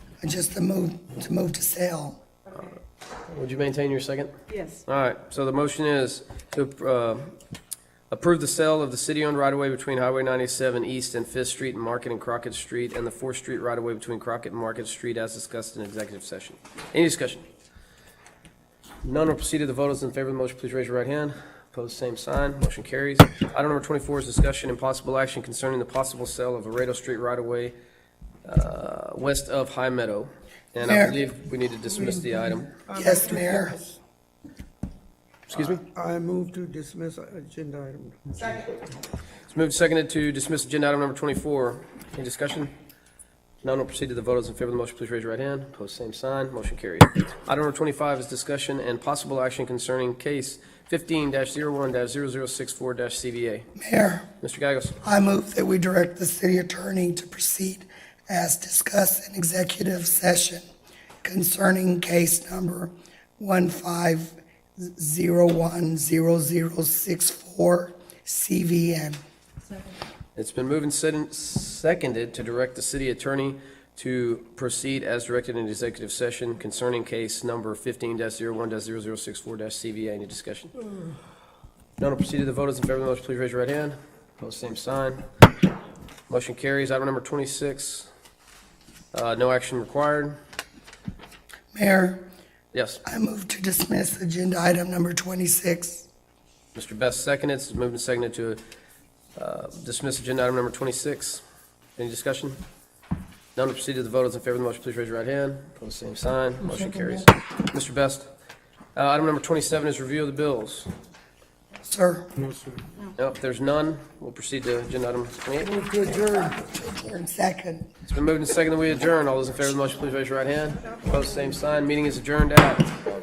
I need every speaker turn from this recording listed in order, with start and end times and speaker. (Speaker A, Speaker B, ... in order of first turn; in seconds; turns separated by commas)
Speaker A: 0.2-2.2, Speaker B: 2.5-7.3, Speaker B: 8.1-17.4, Speaker B: 19.0-27.7, Speaker B: 28.4-32.8, Speaker A: 30.8-31.1, Speaker C: 32.9-34.0, Speaker A: 32.9-33.8, Speaker B: 35.5-35.8, Speaker C: 35.6-38.7, Speaker B: 39.5-42.7, Speaker B: 43.6-53.7, Speaker A: 53.8-54.3, Speaker B: 54.4-55.0, Speaker A: 55.0-60.6, Speaker A: 61.2-69.2, Speaker B: 70.3-80.7, Speaker B: 82.0-85.2, Speaker B: 86.3-88.1, Speaker B: 89.1-90.4, Speaker A: 91.7-92.2, Speaker B: 92.7-93.0, Speaker A: 93.0-96.1, Speaker B: 96.7-98.6, Speaker B: 99.3-101.4, Speaker B: 102.0-102.6, Speaker B: 103.5-108.3, Speaker B: 109.0-110.9, Speaker A: 111.8-112.3, Speaker C: 112.5-112.8, Speaker B: 113.2-115.8, Speaker C: 115.7-116.6, Speaker A: 116.1-117.9, Speaker B: 118.0-122.9